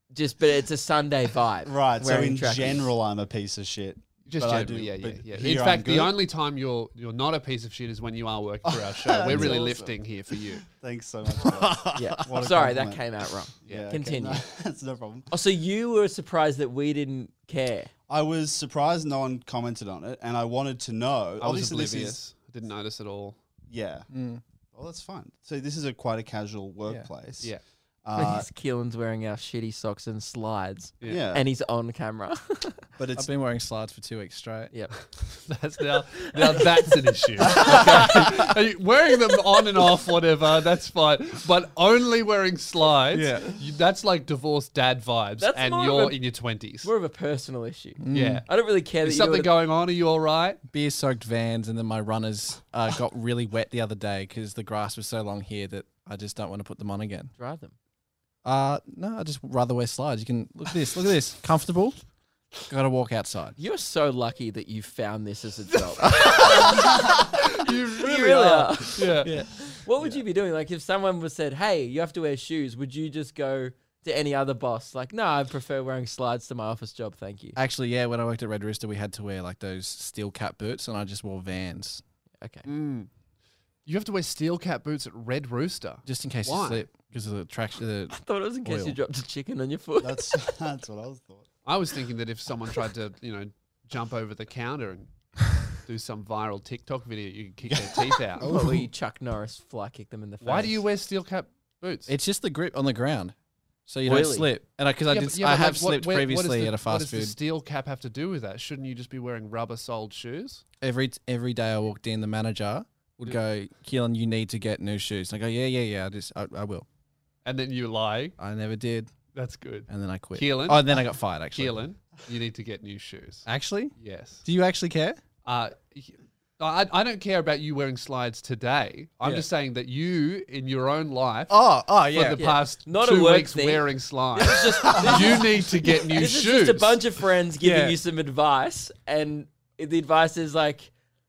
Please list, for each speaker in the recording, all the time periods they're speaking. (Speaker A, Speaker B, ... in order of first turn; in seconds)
Speaker A: 0.1-2.9, 11.9-14.4, 15.3-17.9, 28.1-32.8, 36.2-36.7, 37.5-38.1, 45.4-46.2, 46.8-49.5, 57.4-57.7, 63.6-66.9, 68.0-77.6, 82.4-82.7, 88.1-90.3, 98.4-100.8, 104.0-104.5, 132.4-140.9
Speaker B: 1.6-6.2, 8.7-15.3, 18.1-22.2, 23.7-24.1, 24.7-27.5, 28.0-28.5, 31.0-31.4, 33.0-33.3, 90.0-91.5, 97.7-98.5
Speaker C: 4.3-10.6, 21.4-23.4, 35.5-46.9, 48.1-48.5, 49.0-50.6, 66.4-69.3, 82.7-83.1, 83.8-86.8, 91.7-95.1, 95.8-98.4, 100.4-102.1, 105.1-110.6, 117.4-118.3, 119.3-120.8, 121.5-123.5, 124.0-124.4, 125.4-131.5, 132.1-137.0
Speaker D: 24.1-24.4, 33.1-34.7, 43.1-43.6, 48.0-48.4, 50.7-57.3, 58.4-62.0, 62.6-63.6, 66.1-66.7, 69.2-70.2, 77.5-82.0, 86.0-89.0, 98.4-98.8, 102.1-103.3, 103.9-107.3, 110.8-116.8, 118.4-119.1, 119.9-121.8, 123.5-125.2, 131.5-132.4, 137.6-138.0